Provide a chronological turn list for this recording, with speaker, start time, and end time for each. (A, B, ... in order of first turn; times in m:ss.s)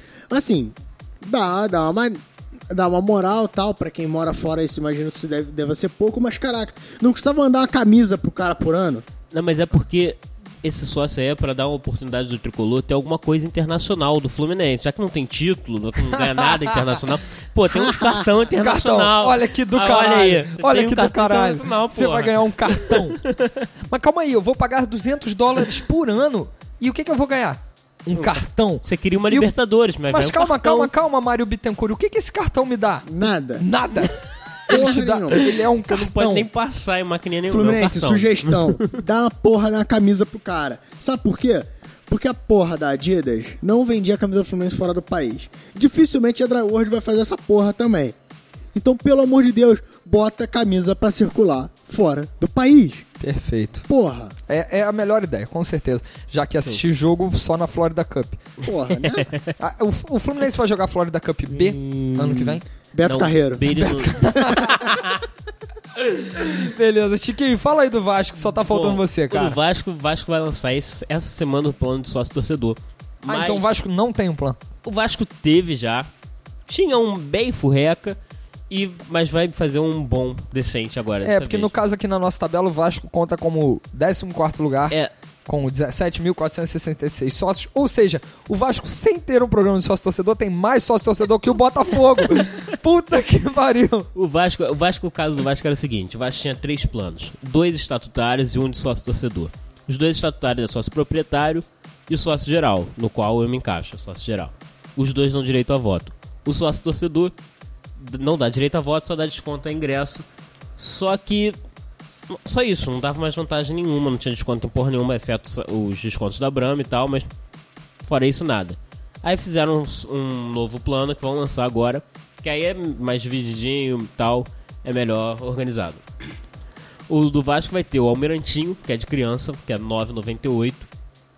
0:00.3-0:09.0 A
0:09.3-0:23.6 B
0:16.2-0:17.0 C
0:17.7-0:18.3 A
0:18.6-0:23.3 C
0:23.9-0:29.5 C
0:28.1-0:30.9 B
0:30.1-0:36.5 C
0:33.0-0:33.6 A
0:34.7-0:35.5 A
0:35.4-0:39.0 B
0:37.5-0:48.2 A
0:48.7-0:53.0 A
0:53.2-0:53.8 C
0:53.9-0:54.3 A
0:54.5-0:58.4 C
0:58.6-0:59.3 A
0:58.9-0:59.5 B
0:59.6-1:02.6 C
1:01.5-1:03.7 A
1:03.0-1:05.2 B
1:03.7-1:04.9 C
1:06.0-1:09.6 C
1:08.5-1:13.7 B
1:13.3-1:14.6 C
1:14.8-1:16.1 B
1:16.7-1:18.2 B
1:18.7-1:21.7 B
1:21.2-1:34.1 C
1:34.1-1:47.3 B
1:48.0-1:50.2 B
1:50.8-1:51.6 B
1:52.3-1:57.3 B
1:58.0-2:06.0 B
2:07.1-2:10.9 B